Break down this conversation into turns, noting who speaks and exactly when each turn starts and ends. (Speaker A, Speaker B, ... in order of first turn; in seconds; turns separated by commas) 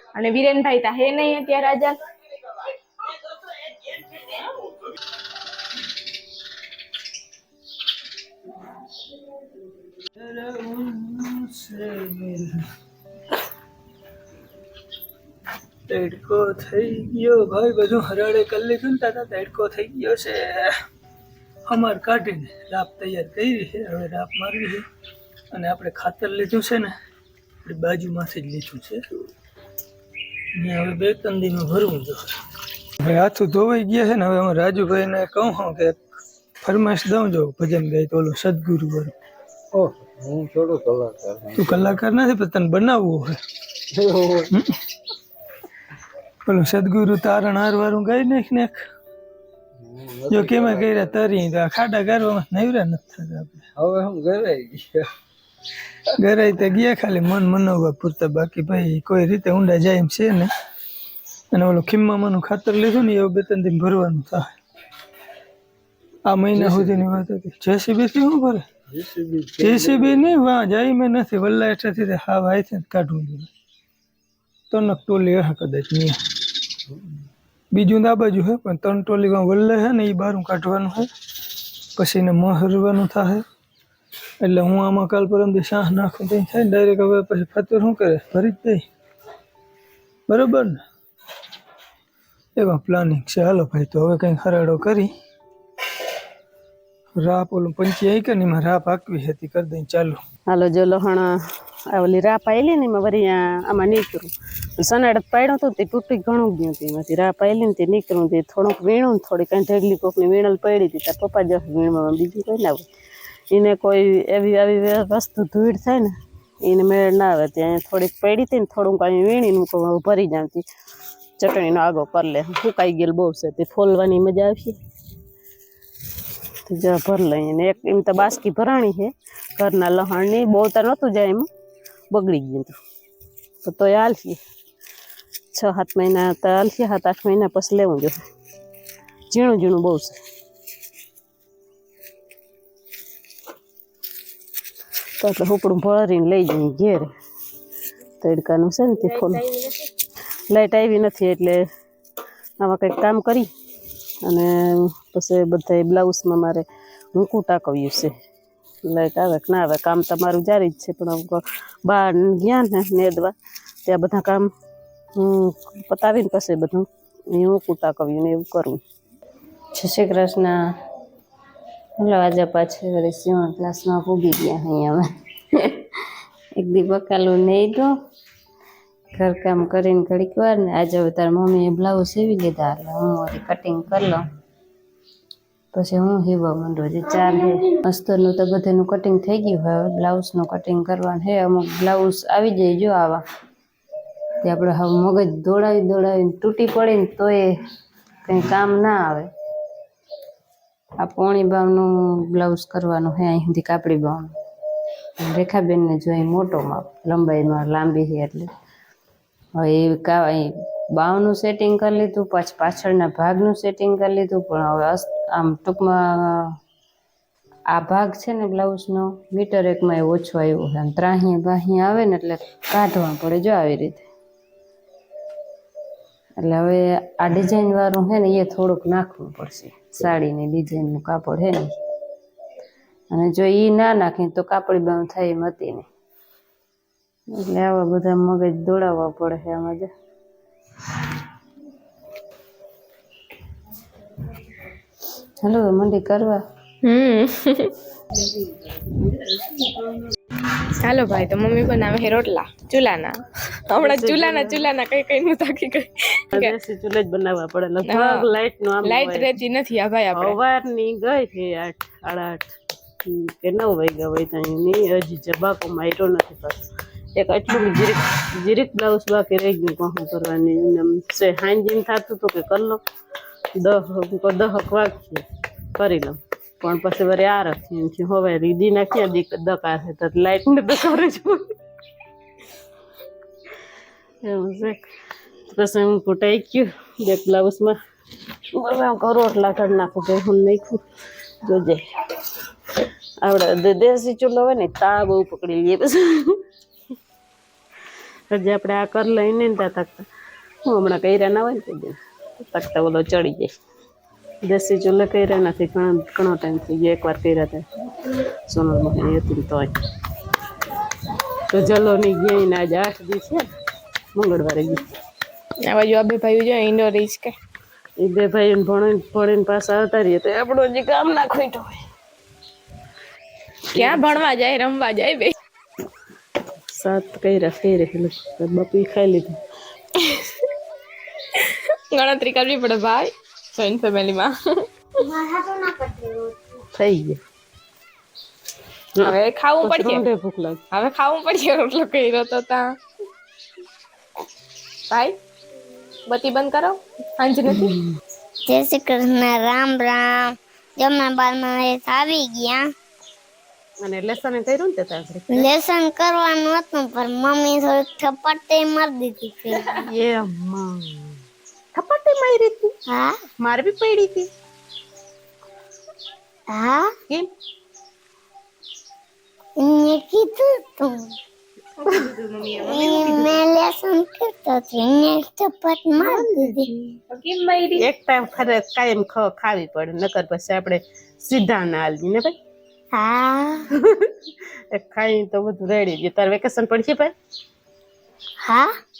Speaker A: 0.1-2.0, Speaker B: 10.2-12.6, Speaker B: 15.9-20.8, Speaker B: 21.7-24.8, Speaker B: 25.5-26.9, Speaker B: 27.6-29.0, Speaker B: 30.6-32.3, Speaker B: 33.0-36.0, Speaker B: 36.6-39.1, Speaker C: 39.7-42.0, Speaker B: 41.5-43.4, Speaker C: 43.9-44.5, Speaker B: 44.5-44.8, Speaker B: 46.5-48.8, Speaker C: 49.8-51.3, Speaker B: 50.3-53.6, Speaker C: 53.8-55.0, Speaker B: 56.2-60.5, Speaker B: 61.5-64.5, Speaker B: 66.2-68.7, Speaker C: 66.5-67.2, Speaker C: 68.9-70.4, Speaker B: 69.6-73.5, Speaker B: 74.7-76.2, Speaker B: 77.7-81.1, Speaker B: 82.0-83.4, Speaker B: 84.4-88.8, Speaker B: 90.3-90.8, Speaker B: 92.5-95.1, Speaker B: 97.2-100.2, Speaker D: 100.5-101.3, Speaker D: 101.9-112.9, Speaker D: 113.5-120.6, Speaker D: 121.4-124.8, Speaker D: 126.7-131.5, Speaker D: 132.1-132.8, Speaker D: 133.6-134.4, Speaker D: 135.5-138.2, Speaker D: 139.3-140.2, Speaker D: 145.2-147.1, Speaker D: 148.2-149.4, Speaker A: 149.1-149.7, Speaker D: 150.5-151.6, Speaker D: 152.6-153.5, Speaker D: 154.2-158.1, Speaker D: 158.8-163.3, Speaker D: 163.8-164.5, Speaker D: 165.2-168.8, Speaker D: 169.7-170.6, Speaker D: 172.0-175.9, Speaker D: 176.6-177.9, Speaker D: 179.2-184.2, Speaker D: 185.7-193.2, Speaker D: 194.4-197.5, Speaker D: 198.2-199.3, Speaker D: 201.0-204.3, Speaker D: 205.2-208.5, Speaker D: 209.5-216.5, Speaker D: 217.7-224.1, Speaker D: 226.4-231.7, Speaker D: 233.1-235.9, Speaker D: 237.3-239.9, Speaker D: 245.4-246.4, Speaker A: 246.8-247.7, Speaker D: 248.1-249.7, Speaker A: 250.8-256.5, Speaker D: 253.7-254.6, Speaker D: 256.3-259.3, Speaker A: 257.9-258.2, Speaker A: 258.8-260.4, Speaker D: 260.1-266.6, Speaker D: 267.1-272.8, Speaker D: 273.6-281.5, Speaker D: 284.2-284.8, Speaker D: 285.5-287.8, Speaker D: 288.5-290.8, Speaker D: 291.4-291.8, Speaker D: 293.2-296.4, Speaker D: 298.3-300.1, Speaker D: 300.6-303.5, Speaker D: 304.4-309.7, Speaker D: 311.5-313.4, Speaker D: 314.1-314.8, Speaker A: 315.6-317.4, Speaker D: 318.0-321.8, Speaker D: 323.7-324.1, Speaker A: 323.7-325.3, Speaker D: 326.7-329.4, Speaker A: 330.0-330.4, Speaker A: 331.3-334.6, Speaker E: 335.0-336.6, Speaker D: 336.7-337.2, Speaker D: 338.9-340.6, Speaker A: 339.0-340.0, Speaker A: 340.7-342.7, Speaker A: 344.9-345.2, Speaker A: 346.1-347.7, Speaker D: 347.5-347.9, Speaker E: 348.4-352.7, Speaker D: 353.8-355.5, Speaker E: 355.3-359.7, Speaker D: 359.7-361.2, Speaker D: 361.7-362.7, Speaker E: 362.9-363.2, Speaker D: 363.4-364.3, Speaker E: 366.5-366.9, Speaker E: 369.6-371.1, Speaker A: 371.8-373.4, Speaker E: 372.6-376.9, Speaker A: 376.0-376.5, Speaker A: 377.1-377.8, Speaker D: 377.8-382.4, Speaker E: 382.9-383.7, Speaker D: 383.8-387.1, Speaker E: 388.4-388.8